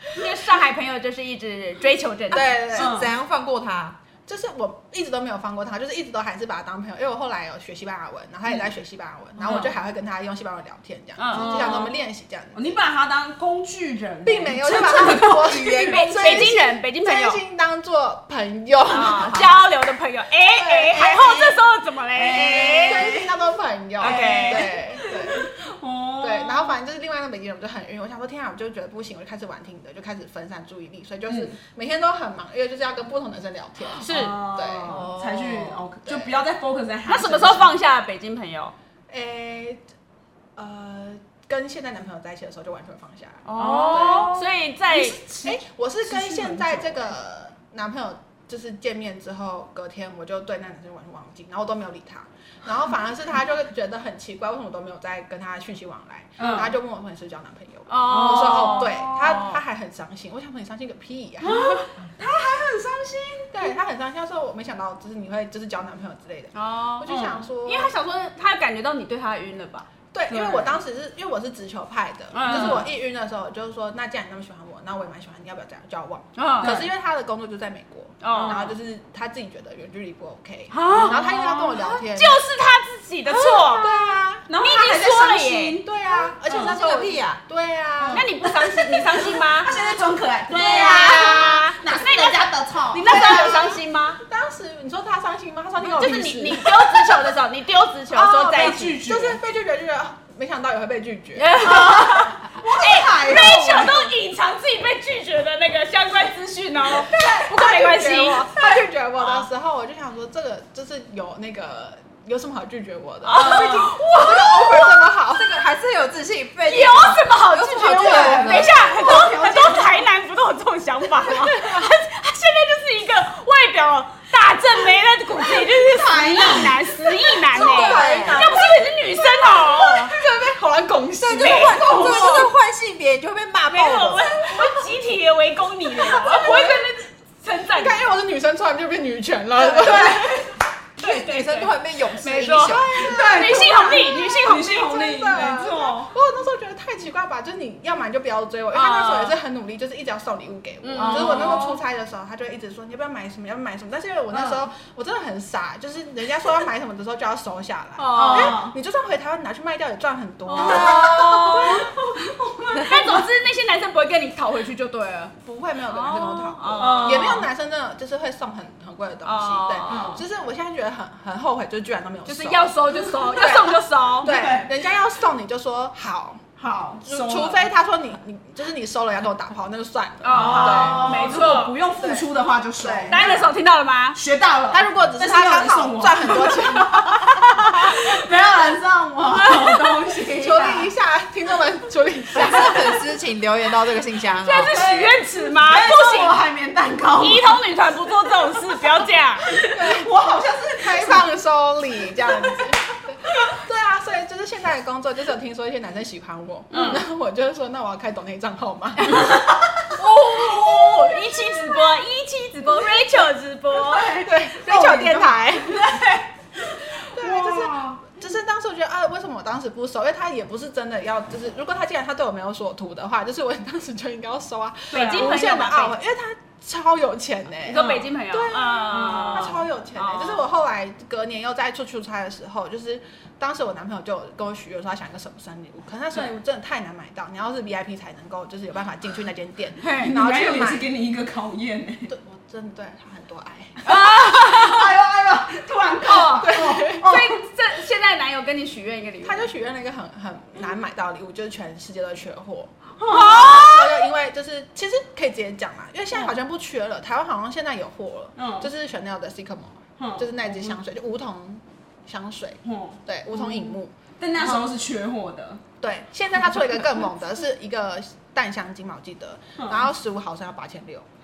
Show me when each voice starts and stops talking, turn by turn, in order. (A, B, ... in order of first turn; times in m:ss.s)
0:00.2-0:02.6 A
0:02.3-0:03.0 B
0:02.7-0:03.1 C
0:02.7-0:04.0 D
0:04.3-0:12.8 B
0:09.4-0:09.7 C
0:11.2-0:11.9 A
0:11.3-0:12.0 C
0:12.5-0:16.5 C
0:14.2-0:19.6 B
0:15.2-0:16.0 D
0:15.7-0:17.4 A
0:18.9-0:23.2 A
0:20.5-0:21.5 B
0:21.2-0:21.4 C
0:22.1-0:23.4 C
0:22.8-0:25.5 B
0:24.0-0:24.7 A
0:24.0-0:26.8 C
0:26.2-0:35.0 B
0:31.3-0:31.6 C
0:34.0-0:37.8 C
0:34.0-0:34.4 A
0:34.9-0:35.8 D
0:36.0-0:36.3 B
0:37.1-0:38.7 A
0:39.1-0:39.8 B
0:40.6-0:44.4 B
0:43.5-0:45.2 A
0:43.6-0:47.1 C
0:45.4-1:01.7 B
0:56.4-0:56.8 C
0:57.9-0:59.6 A
0:58.0-0:59.4 C
1:01.4-1:03.7 C
1:03.5-1:07.9 B
1:06.5-1:09.9 A
1:07.1-1:07.4 C
1:10.1-1:22.4 B
1:10.3-1:10.8 C
1:12.3-1:12.9 A
1:12.4-1:12.9 C
1:16.4-1:16.8 A
1:16.6-1:16.9 C
1:18.2-1:18.7 A
1:18.3-1:18.7 C
1:20.7-1:23.9 A
1:20.8-1:21.9 C
1:23.3-1:25.8 C
1:23.7-1:24.5 B
1:24.6-1:25.8 A
1:25.8-1:28.3 B
1:26.5-1:26.8 C
1:26.5-1:27.4 D
1:28.0-1:33.7 C
1:28.1-1:29.8 A
1:30.5-1:34.2 A
1:30.6-1:31.5 B
1:33.0-1:36.8 B
1:35.8-1:39.0 A
1:38.1-1:41.8 B
1:38.3-1:39.4 C
1:41.4-1:48.6 A
1:41.6-1:44.1 C
1:46.9-1:47.3 C
1:47.1-1:55.5 B
1:53.2-1:55.0 A
1:53.4-1:53.9 C
1:55.2-1:58.7 D
1:56.6-2:10.1 A
1:57.8-2:00.0 C
2:05.7-2:08.1 C
2:07.5-2:08.5 D
2:07.6-2:08.8 B
2:10.1-2:12.3 B
2:11.2-2:14.4 D
2:11.3-2:12.5 C
2:11.3-2:12.5 A
2:13.7-2:18.0 A
2:16.2-2:16.8 B
2:17.7-2:20.5 B
2:19.7-2:20.4 C
2:19.8-2:20.3 A
2:21.0-2:22.9 D
2:21.0-2:24.9 A
2:22.6-2:41.8 B
2:22.9-2:26.1 C
2:28.7-2:29.4 A
2:30.8-2:31.8 A
2:31.0-2:31.8 C
2:34.3-2:34.6 C
2:38.0-2:38.6 A
2:38.1-2:38.8 C
2:40.5-2:41.9 A
2:40.6-2:43.3 C
2:42.8-2:45.4 A
2:45.4-2:52.8 B
2:45.9-2:47.5 A
2:46.8-2:47.5 C
2:49.2-2:50.2 A
2:49.9-2:50.2 C
2:52.3-2:54.4 A
2:53.3-2:56.4 B
2:54.2-2:54.8 C
2:56.6-2:57.7 C
2:57.0-3:01.4 B
3:00.2-3:01.8 A
3:00.3-3:03.5 C
3:02.0-3:02.3 B
3:02.8-3:03.4 B
3:03.1-3:04.2 A
3:04.1-3:10.9 C
3:04.7-3:07.4 B
3:09.4-3:09.9 A
3:10.4-3:13.0 B
3:12.3-3:14.8 D
3:14.4-3:16.4 A
3:14.8-3:17.6 C
3:17.2-3:19.5 A
3:18.5-3:21.2 C
3:19.7-3:20.1 B
3:20.8-3:29.2 B
3:26.7-3:27.0 A
3:26.7-3:27.0 C
3:29.2-3:29.9 C
3:30.0-3:34.3 A
3:33.8-3:38.1 C
3:34.2-3:35.9 B
3:37.1-4:00.9 B
3:44.9-3:45.5 C
3:44.9-3:46.0 A
3:47.7-3:50.4 A
3:47.7-3:48.1 C
3:48.9-3:49.7 C
3:59.8-4:00.1 A
4:00.0-4:02.1 C
4:02.1-4:03.8 B
4:03.8-4:04.9 A
4:03.9-4:07.4 C
4:06.0-4:09.5 A
4:06.4-4:07.1 B
4:09.2-4:24.6 B
4:13.0-4:13.8 C
4:13.0-4:13.9 A
4:18.4-4:18.7 C
4:20.0-4:20.8 C
4:22.6-4:25.6 C
4:25.8-4:31.1 B
4:29.6-4:29.9 C